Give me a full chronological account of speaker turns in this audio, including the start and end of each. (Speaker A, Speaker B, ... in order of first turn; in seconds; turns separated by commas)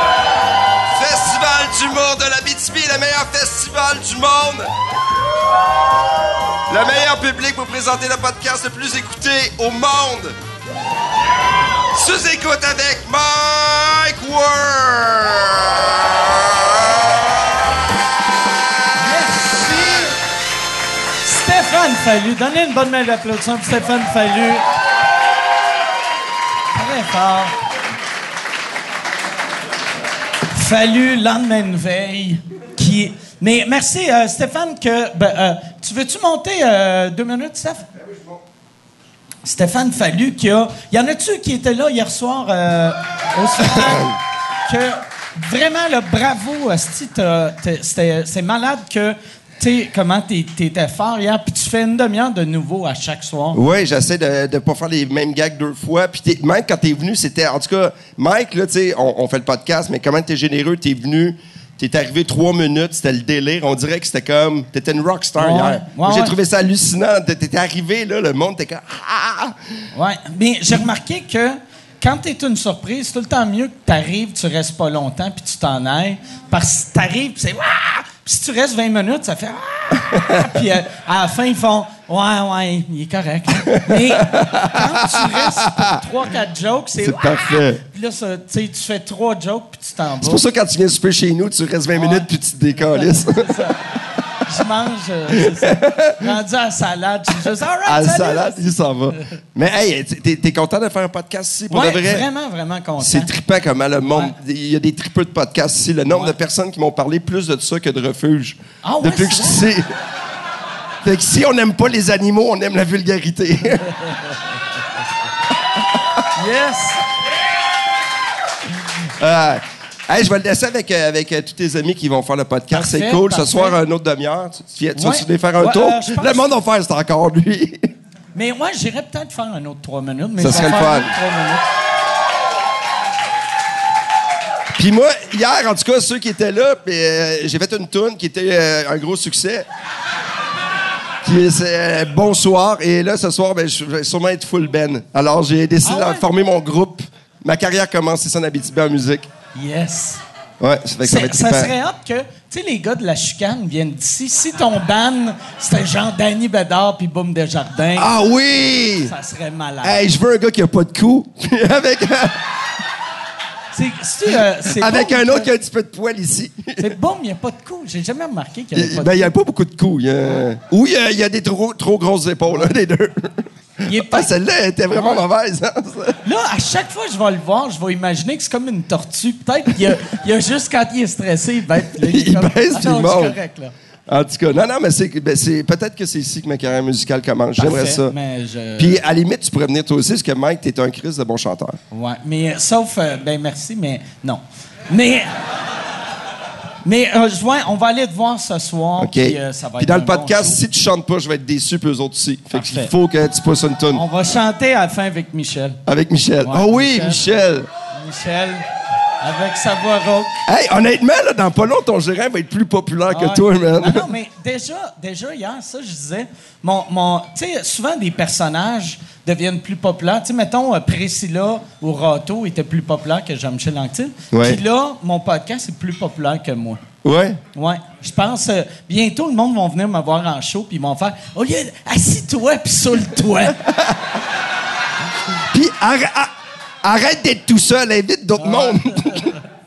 Speaker A: 0.9-4.7, Speaker A: 6.7-10.4, Speaker A: 11.9-17.0, Speaker B: 19.0-20.1, Speaker B: 21.2-24.6, Speaker B: 26.7-27.6, Speaker B: 30.5-37.9, Speaker B: 39.4-44.1, Speaker A: 43.8-44.1, Speaker B: 44.7-53.6, Speaker A: 53.5-69.5, Speaker B: 65.4-66.3, Speaker B: 69.9-90.4, Speaker A: 83.7-85.8, Speaker A: 87.0-87.8, Speaker A: 90.2-93.5, Speaker B: 91.9-93.8, Speaker B: 94.5-99.2, Speaker A: 95.5-96.2, Speaker A: 97.9-102.3, Speaker B: 101.7-103.3, Speaker A: 103.0-109.8, Speaker B: 104.1-104.3, Speaker B: 106.1-106.3, Speaker B: 108.8-109.7, Speaker A: 111.0-114.1, Speaker B: 116.4-117.0, Speaker A: 119.2-127.9, Speaker B: 122.7-123.8, Speaker B: 125.0-126.6, Speaker B: 128.3-131.7, Speaker A: 130.4-131.1, Speaker A: 134.8-139.7, Speaker A: 141.2-149.3, Speaker B: 145.8-146.3, Speaker B: 149.6-150.2, Speaker A: 150.6-151.7, Speaker B: 151.0-158.1, Speaker A: 158.0-159.1, Speaker B: 159.1-160.0, Speaker A: 159.8-162.5, Speaker B: 163.7-165.5, Speaker A: 164.6-166.9, Speaker B: 166.8-169.3, Speaker A: 168.8-176.2, Speaker B: 173.9-174.3, Speaker B: 174.9-175.2, Speaker B: 176.2-183.7, Speaker A: 182.0-183.4, Speaker A: 184.1-188.1, Speaker B: 187.6-189.0, Speaker A: 188.8-191.8, Speaker B: 191.9-195.4, Speaker B: 196.8-200.6, Speaker A: 199.0-204.0, Speaker B: 202.5-202.9, Speaker B: 203.9-205.8, Speaker A: 205.9-207.7, Speaker B: 206.4-207.2, Speaker B: 207.9-208.7, Speaker B: 209.2-210.3, Speaker A: 210.5-214.1, Speaker B: 213.1-226.8, Speaker A: 224.3-224.6, Speaker A: 227.0-227.4, Speaker B: 227.6-233.6, Speaker A: 235.5-236.3, Speaker A: 236.8-239.4, Speaker B: 238.4-239.3